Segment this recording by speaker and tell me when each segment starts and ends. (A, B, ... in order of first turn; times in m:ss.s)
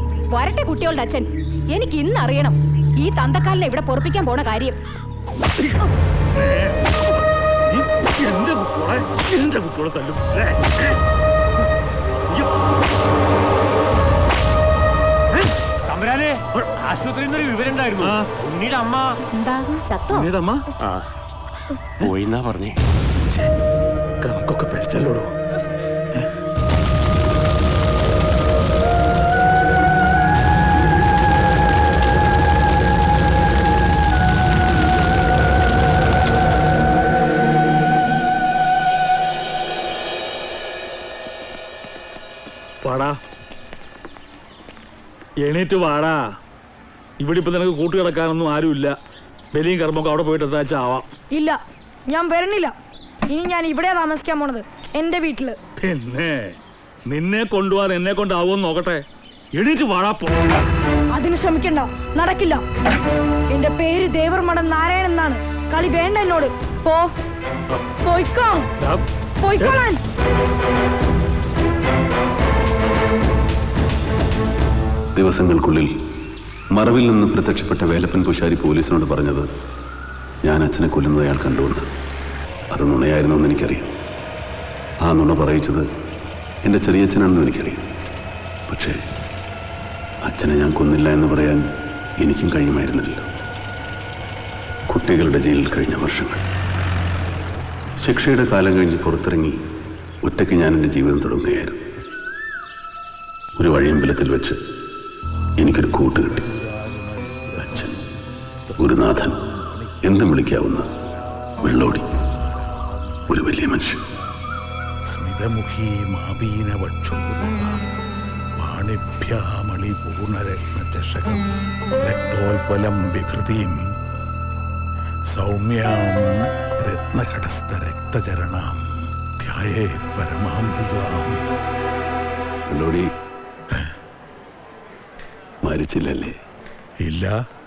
0:00.3-0:04.8 A
0:05.6-0:07.0 B
0:07.7-0:11.0 B
0:15.9-0:19.1 C
0:16.6-0:16.9 B
0:18.0-0:18.3 B
0:19.4-0:20.0 A
0:20.1-0:20.6 B
0:22.0-0:22.8 C
0:24.2-0:25.3 B
0:42.8-0:43.2 B
0:45.4-0:46.3 B
0:47.2-0:49.0 B
0:49.5-0:51.1 B
0:51.3-0:52.8 D
0:53.3-0:55.6 D
0:55.8-0:56.6 B
0:57.1-0:59.0 B
0:59.5-1:00.4 B
1:01.1-1:02.6 D
1:03.5-1:07.1 D
1:08.0-1:08.7 D
1:09.4-1:10.0 D
1:15.2-1:15.9 E
1:16.8-1:19.5 E
1:20.4-1:21.9 E
1:22.7-1:23.9 E
1:25.0-1:25.9 E
1:26.6-1:27.9 E
1:28.7-1:29.0 E
1:30.3-1:31.6 E
1:32.2-1:33.3 E
1:34.9-1:36.4 E
1:38.0-1:39.6 E
1:40.2-1:41.8 E
1:43.6-1:44.6 E
1:45.6-1:46.5 E
1:46.5-1:47.7 F
1:47.6-1:48.0 E
1:48.8-1:49.4 E
1:48.8-1:50.0 F
1:50.0-1:50.9 E
1:51.6-1:52.1 E
1:53.3-1:54.0 E
1:55.1-1:57.8 F
1:58.6-2:03.8 F
2:05.3-2:06.3 F
2:06.8-2:08.8 F
2:09.4-2:11.4 F
2:12.7-2:13.1 E
2:15.6-2:16.4 E
2:17.0-2:17.3 F